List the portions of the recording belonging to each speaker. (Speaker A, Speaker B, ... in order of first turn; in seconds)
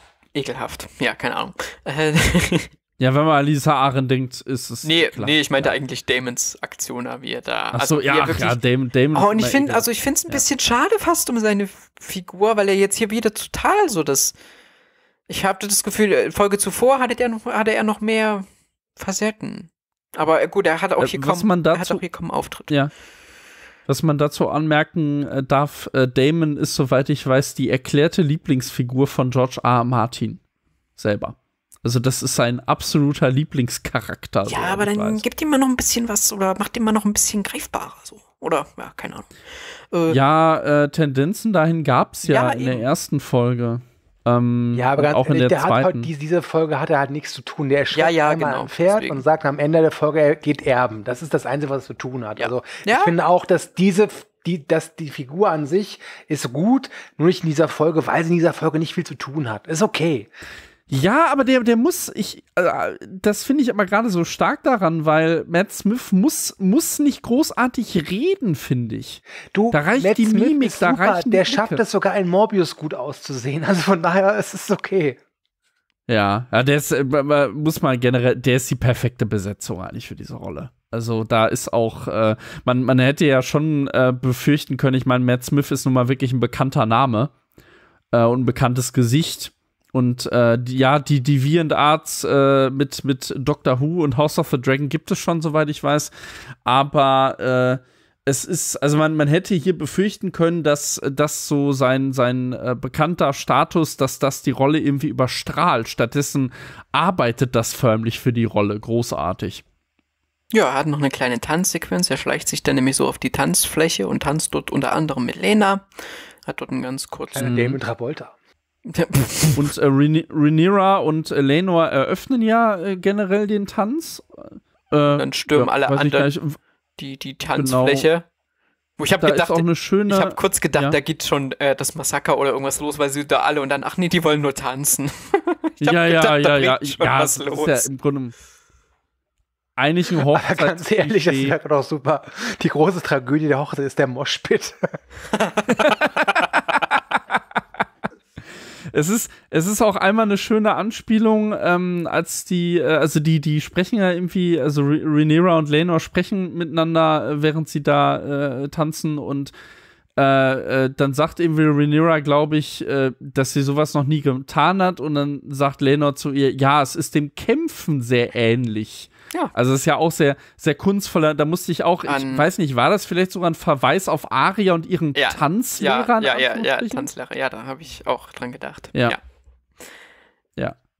Speaker A: 0.3-2.7, 4.8-8.6, 9.1-14.3, 15.3-18.5, 19.0-22.7, 34.5-39.3, 39.9-40.2, 42.2-42.8, 47.9-49.2, 52.4-53.1, 110.5-117.5, 118.9-119.7, 125.2-126.3, 127.0-128.3, 129.0-137.9, 145.3-146.4, 172.1-172.5, 175.2-179.2
Speaker B: 3.0-5.7, 7.7-10.4, 21.0-22.0, 23.9-30.4, 31.0-35.2, 40.1-46.1, 60.9-71.8, 76.1-87.3, 88.1-96.1, 96.7-109.6, 117.4-117.8, 119.6-126.6, 127.6-128.1, 129.2-131.0, 135.8-138.3, 139.8-141.6, 148.9-159.5, 160.2-177.1
Speaker C: 44.7-60.3, 69.5-75.2, 117.3-118.3, 140.3-144.9